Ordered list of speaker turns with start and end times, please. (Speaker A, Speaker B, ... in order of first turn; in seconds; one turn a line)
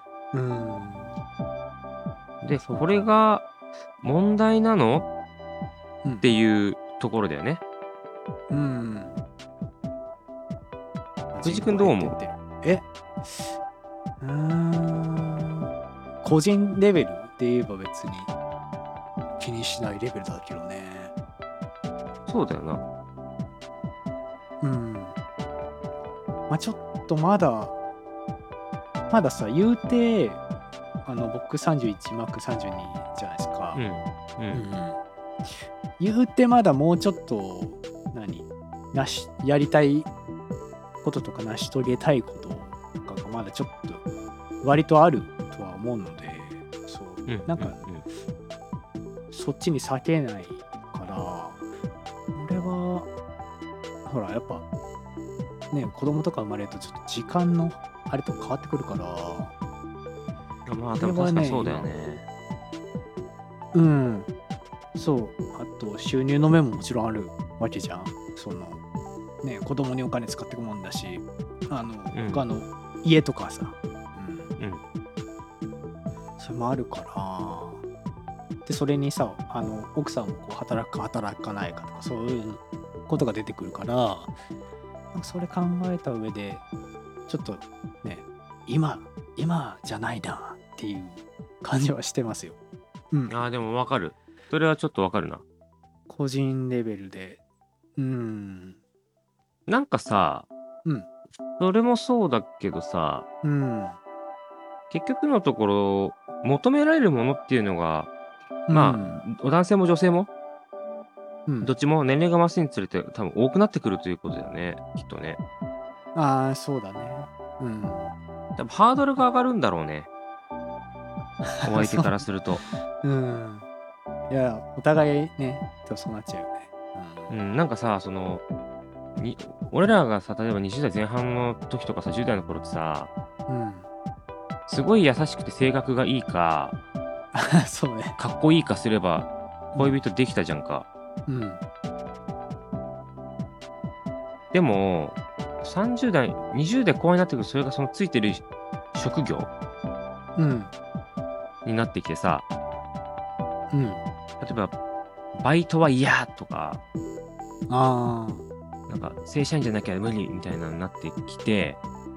Speaker A: 0.3-1.1
Speaker B: 2.4-3.5
Speaker A: 2.6-3.1
Speaker B: 4.0-5.0
Speaker B: 6.2-7.6
Speaker A: 8.5-9.2
Speaker A: 11.3-13.5
Speaker B: 11.4-12.2
Speaker A: 14.2-15.7
Speaker A: 16.2-18.3
Speaker A: 19.4-21.1
Speaker B: 22.3-22.8
Speaker A: 24.6-25.1
Speaker A: 26.5-27.7
Speaker A: 29.1-30.4
Speaker A: 31.0-33.8
Speaker B: 33.7-34.6
Speaker A: 34.5-35.0
Speaker A: 36.0-40.1
Speaker A: 41.0-44.0
Speaker A: 44.6-47.8
Speaker B: 47.2-48.0
Speaker A: 49.3-51.6
Speaker A: 52.3-53.1
Speaker A: 54.0-54.6
Speaker A: 55.7-59.5
Speaker B: 60.6-62.2
Speaker A: 61.0-61.9
Speaker A: 63.7-64.3
Speaker A: 64.9-68.8
Speaker A: 69.4-74.5
Speaker B: 72.1-72.4
Speaker A: 76.4-77.8
Speaker A: 78.7-84.3
Speaker A: 85.1-86.6
Speaker A: 87.3-92.5
Speaker A: 93.1-93.4
Speaker B: 93.3-95.4
Speaker A: 96.1-97.4
Speaker A: 98.0-98.8
Speaker B: 99.7-100.5
Speaker B: 101.6-103.3
Speaker A: 103.4-104.0
Speaker B: 104.9-108.1
Speaker A: 108.7-109.2
Speaker B: 108.7-110.3
Speaker A: 111.5-111.7
Speaker B: 111.6-115.4
Speaker A: 116.1-118.1
Speaker B: 118.6-120.1
Speaker A: 121.5-123.7
Speaker B: 121.6-122.6
Speaker A: 124.3-127.3
Speaker B: 127.3-128.4
Speaker B: 129.2-133.1
Speaker A: 133.5-133.9
Speaker B: 134.7-136.8
Speaker A: 137.3-138.2
Speaker B: 138.2-140.9
Speaker A: 139.7-140.0
Speaker A: 141.3-141.6
Speaker B: 144.5-148.4
Speaker B: 148.9-149.5
Speaker A: 150.3-150.7
Speaker B: 151.6-152.4
Speaker A: 153.7-154.0
Speaker B: 154.4-154.7
Speaker B: 155.4-156.8
Speaker A: 157.7-158.4
Speaker B: 158.9-161.8